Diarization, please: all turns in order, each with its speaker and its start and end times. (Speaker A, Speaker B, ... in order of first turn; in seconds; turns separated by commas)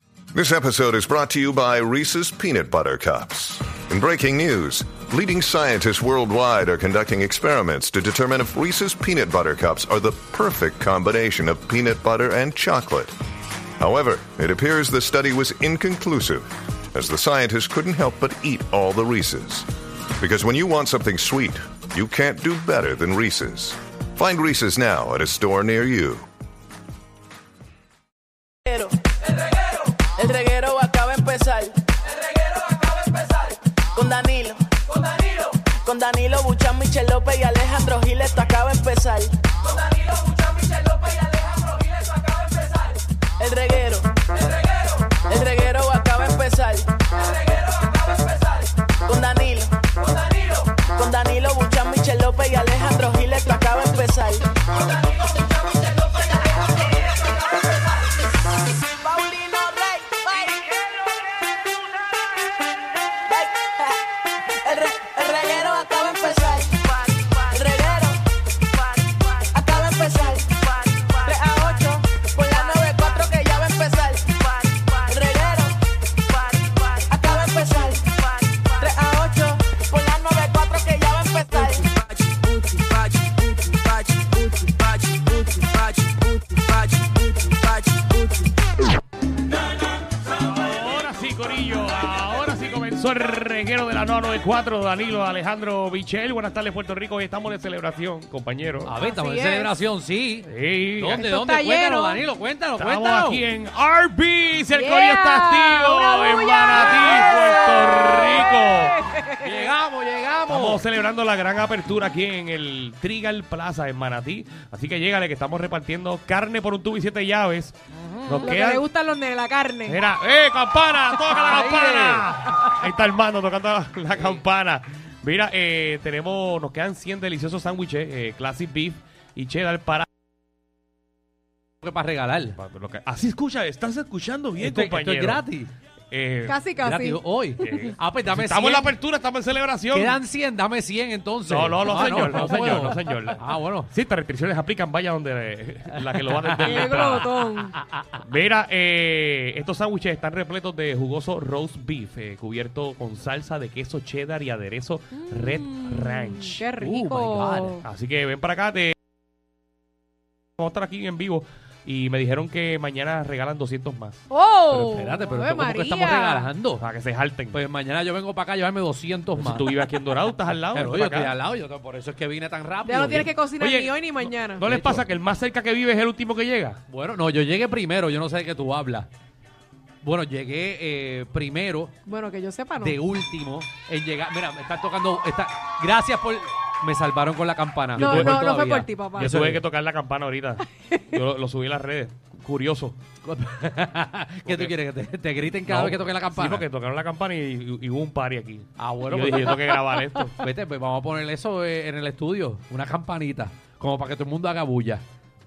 Speaker A: 0.3-13.1, Speaker A: 13.8-26.2, Speaker B: 28.6-29.0, Speaker B: 29.6-31.8, Speaker B: 32.5-39.4, Speaker B: 41.2-41.5, Speaker B: 43.4-44.4, Speaker B: 45.1-47.1, Speaker B: 49.0-54.5, Speaker B: 58.9-61.0, Speaker B: 63.2-68.2, Speaker B: 68.8-75.8, Speaker B: 76.3-88.5, Speaker C: 90.3-98.9, Speaker D: 98.8-103.4, Speaker E: 99.0-99.8, Speaker C: 100.5-101.3, Speaker E: 101.1-102.2, Speaker C: 102.8-109.1, Speaker E: 104.7-109.7, Speaker D: 106.7-107.0, Speaker D: 109.3-110.8, Speaker C: 110.5-117.8, Speaker D: 117.9-118.5, Speaker C: 118.3-118.8, Speaker E: 118.4-120.0, Speaker C: 119.9-130.1, Speaker D: 121.2-122.3, Speaker D: 124.1-124.4, Speaker D: 131.8-132.6, Speaker C: 132.6-135.4, Speaker D: 134.6-135.7, Speaker C: 136.1-136.6, Speaker E: 136.4-137.2, Speaker D: 136.8-138.9, Speaker C: 137.6-140.2, Speaker D: 139.9-143.9, Speaker C: 141.4-147.5, Speaker D: 146.1-148.2, Speaker E: 146.6-147.7, Speaker C: 148.2-156.6, Speaker E: 155.2-157.8, Speaker D: 156.8-157.8, Speaker C: 157.8-158.9, Speaker C: 160.6-164.2, Speaker E: 164.3-166.5, Speaker D: 164.7-166.8, Speaker C: 166.8-167.6, Speaker D: 167.5-169.7, Speaker C: 169.3-171.3, Speaker D: 170.6-173.3, Speaker E: 172.8-174.6, Speaker C: 173.6-176.8, Speaker D: 174.6-175.1, Speaker D: 176.9-179.1, Speaker D: 180.0-181.9, Speaker E: 182.1-183.0, Speaker D: 182.8-189.6, Speaker C: 187.9-188.4, Speaker E: 188.0-189.3, Speaker C: 189.2-193.0, Speaker D: 193.2-196.7, Speaker C: 194.4-194.7, Speaker C: 195.7-200.4, Speaker D: 198.8-199.6, Speaker D: 200.4-205.0